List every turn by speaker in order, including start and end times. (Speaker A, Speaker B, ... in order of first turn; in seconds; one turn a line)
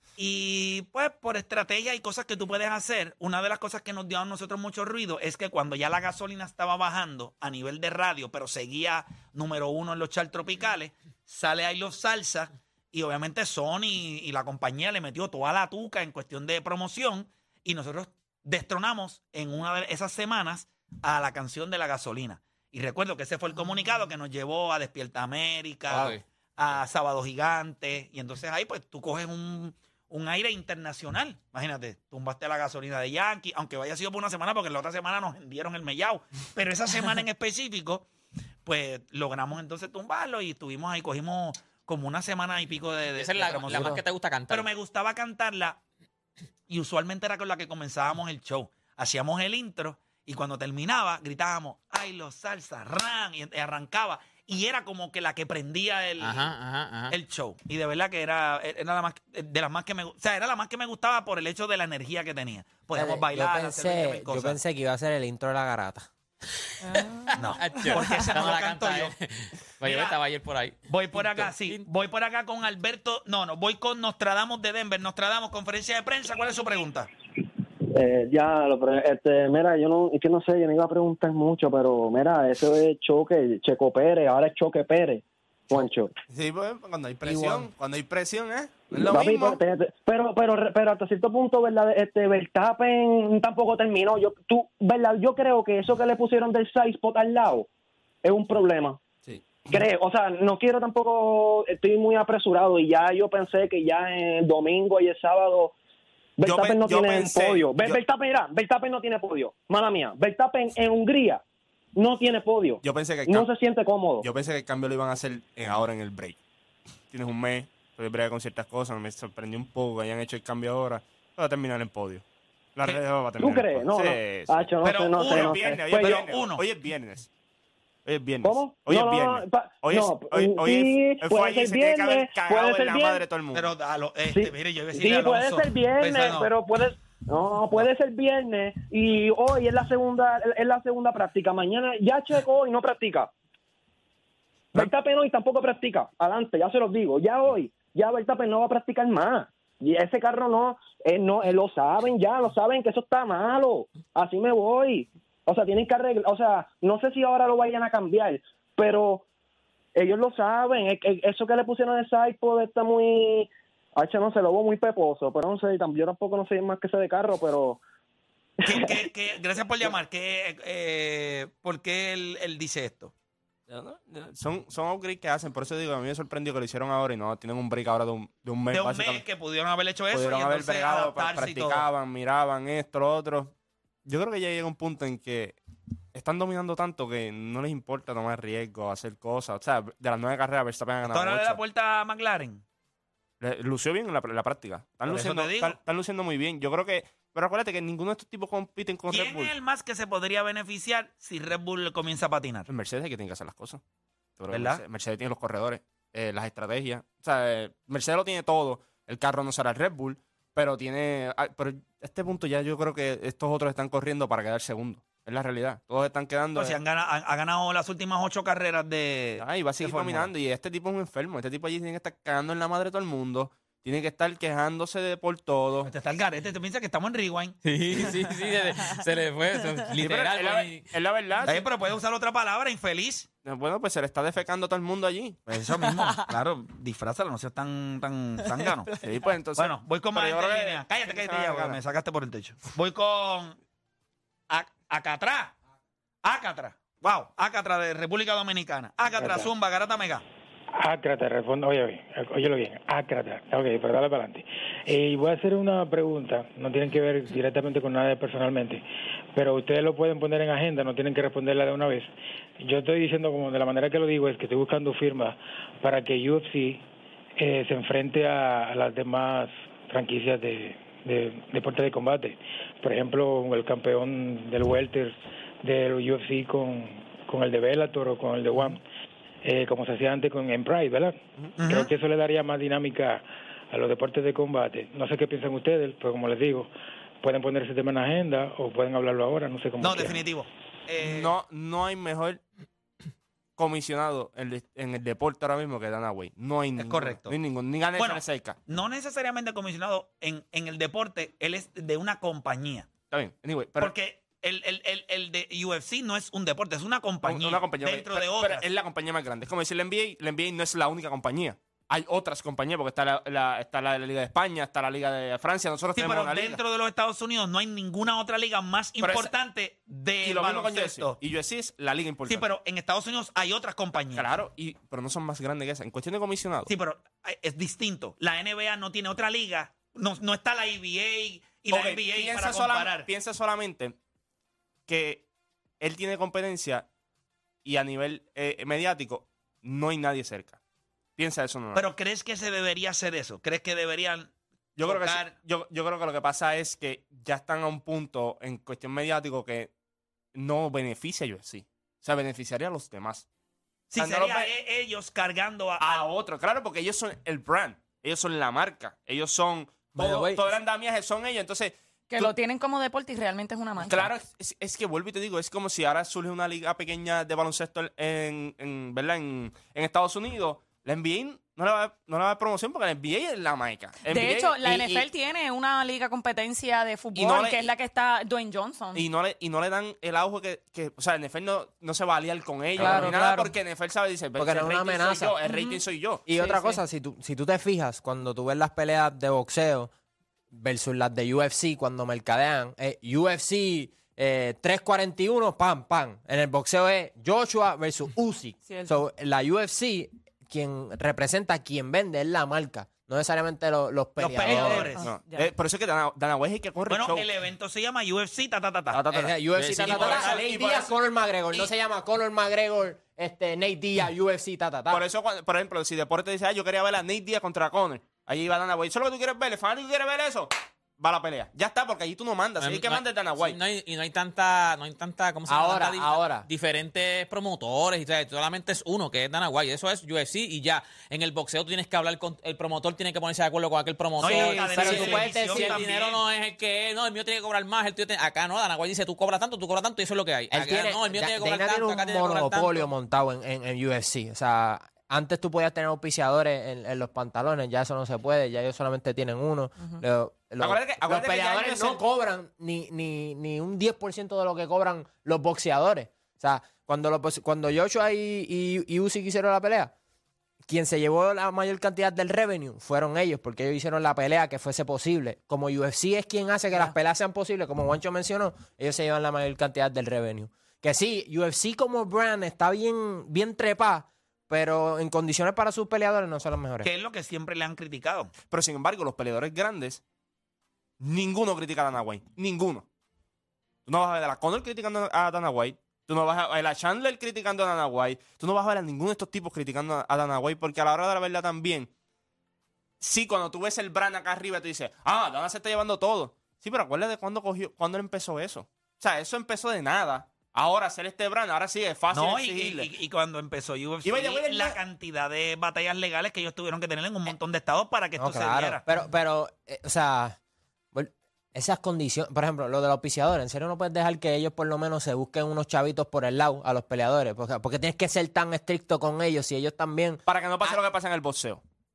Speaker A: 0.2-38.1
Speaker B: 25.9-26.2
Speaker A: 38.6-45.8
Speaker B: 43.2-44.7
Speaker C: 43.7-44.0
Speaker A: 46.7-56.5
Speaker B: 56.2-57.1
Speaker A: 57.1-64.6
Speaker C: 62.9-66.1
Speaker D: 66.8-67.3
Speaker A: 67.4-69.1
Speaker B: 67.4-71.8
Speaker A: 69.8-70.2
Speaker A: 70.9-77.1
Speaker E: 77.9-86.1
Speaker F: 86.3-89.6
Speaker C: 87.2-87.7
Speaker E: 88.9-97.7
Speaker E: 98.2-99.0
Speaker F: 99.2-99.8
Speaker E: 99.7-105.7
Speaker E: 106.4-111.4
Speaker F: 106.4-108.0
Speaker E: 111.9-114.3
Speaker F: 112.8-113.5
Speaker F: 114.2-116.4
Speaker F: 117.1-122.2
Speaker F: 122.7-127.3
Speaker E: 123.4-126.2
Speaker A: 124.8-126.6
Speaker F: 128.0-133.7
Speaker E: 128.4-133.2
Speaker A: 133.5-136.5
Speaker E: 134.2-143.3
Speaker E: 144.7-159.2
Speaker E: 159.9-167.8
Speaker A: 168.6-173.1
Speaker E: 168.6-169.1
Speaker F: 173.7-179.2
Speaker A: 178.7-181.8
Speaker F: 180.1-183.5
Speaker F: 184.1-185.6
Speaker F: 186.1-191.6
Speaker A: 191.1-192.6
Speaker F: 193.4-199.5
Speaker A: 195.1-195.8
Speaker A: 199.1-202.7
Speaker F: 202.7-203.8
Speaker F: 204.4-216.8
Speaker A: 204.5-204.8
Speaker A: 216.5-220.3
Speaker F: 219.4-225.9
Speaker A: 225.8-227.6
Speaker B: 227.6-230.9
Speaker F: 230.0-231.6
Speaker A: 231.4-233.3
Speaker F: 233.4-235.4
Speaker A: 235.5-238.9
Speaker F: 239.0-241.8
Speaker A: 239.6-243.6
Speaker A: 244.5-245.5
Speaker A: 246.2-250.2
Speaker G: 249.2-249.5
Speaker G: 250.8-258.8
Speaker G: 259.3-266.8
Speaker G: 267.4-278.8
Speaker G: 279.4-286.7
Speaker A: 281.6-281.9
Speaker G: 287.2-290.2
Speaker A: 289.8-291.3
Speaker F: 291.0-292.4
Speaker F: 293.6-298.6
Speaker A: 296.8-297.3
Speaker A: 297.9-302.9
Speaker F: 303.1-303.9
Speaker A: 303.8-308.6
Speaker F: 307.2-316.6
Speaker A: 315.9-321.2
Speaker F: 319.0-319.3
Speaker F: 320.2-322.5
Speaker A: 322.3-324.3
Speaker F: 324.1-326.7
Speaker A: 326.7-333.1
Speaker F: 331.7-333.9
Speaker F: 334.9-335.2
Speaker F: 335.8-336.9
Speaker F: 337.6-340.6
Speaker F: 341.2-341.9
Speaker A: 341.7-344.3
Speaker F: 344.8-349.7
Speaker A: 344.8-345.3
Speaker F: 350.3-353.2
Speaker A: 353.9-356.1
Speaker F: 353.9-354.5
Speaker F: 355.8-362.3
Speaker C: 359.9-360.4
Speaker D: 362.1-364.1
Speaker F: 363.8-375.0
Speaker D: 374.0-379.0
Speaker F: 377.1-377.7
Speaker F: 378.9-386.3
Speaker C: 382.8-383.5
Speaker D: 382.8-383.1
Speaker C: 384.4-385.4
Speaker D: 385.4-385.8
Speaker C: 386.3-389.9
Speaker D: 386.3-386.8
Speaker C: 390.5-404.9
Speaker D: 398.6-398.9
Speaker A: 404.2-405.0
Speaker F: 404.5-407.3
Speaker D: 404.9-405.5
Speaker A: 406.9-409.2
Speaker F: 408.9-410.9
Speaker C: 409.1-415.0
Speaker B: 409.6-410.4
Speaker F: 414.9-423.6
Speaker B: 422.6-442.9
Speaker C: 425.5-426.4
Speaker A: 434.2-436.2
Speaker C: 434.2-435.8
Speaker C: 440.5-459.9
Speaker F: 450.6-452.0
Speaker C: 460.7-476.9
Speaker A: 476.8-478.3
Speaker F: 478.5-480.0
Speaker F: 481.0-482.9
Speaker F: 483.9-491.9
Speaker F: 493.0-502.9
Speaker A: 502.1-508.8
Speaker F: 504.0-504.8
Speaker C: 508.2-510.4
Speaker C: 510.9-520.8
Speaker F: 520.2-521.6